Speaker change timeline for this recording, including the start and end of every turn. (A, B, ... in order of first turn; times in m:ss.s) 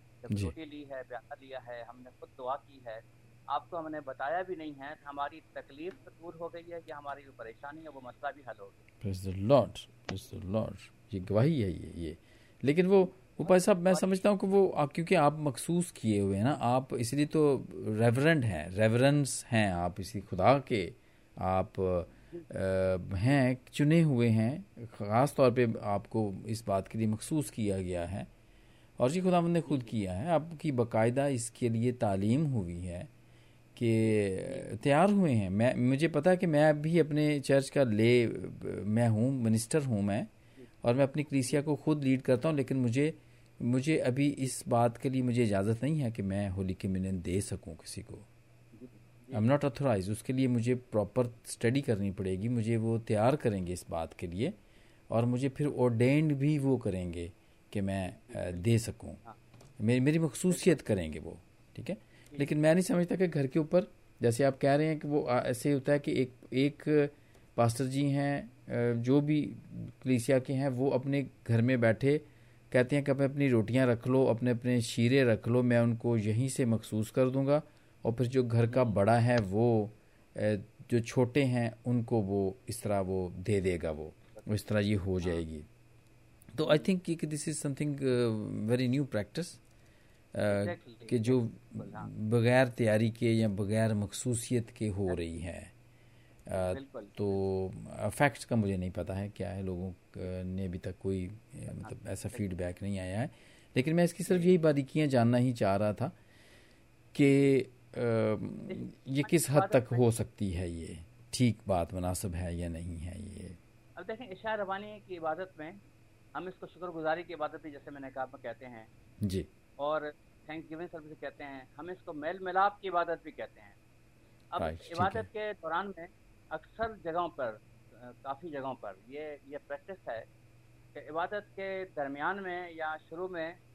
0:00.2-0:08.8 A
0:09.0-0:28.3 B
0:13.4-0:14.2 A
0:29.0-0:33.1 B
0:29.7-0:29.9 A
0:33.8-0:40.3 B
0:34.4-0:34.7 A
0:40.8-0:48.3 B
0:48.8-0:49.5 A
0:49.3-0:54.6 B
0:55.1-0:59.2 B
0:58.3-0:59.4 A
0:59.8-1:25.7 B
1:00.5-1:00.8 A
1:18.7-1:19.0 A
1:26.5-1:29.6 B
1:30.3-1:35.7 B
1:30.5-1:32.1 A
1:36.5-1:46.2 B
1:36.5-1:37.2 A
1:41.7-1:42.4 A
1:47.1-1:53.6 B
1:48.7-1:50.0 A
1:54.0-1:55.8 A
1:56.4-1:58.9 A
1:59.2-1:59.5 B
1:59.8-2:03.8 A
2:04.5-2:10.3 A
2:04.6-2:05.3 B
2:11.0-2:13.6 A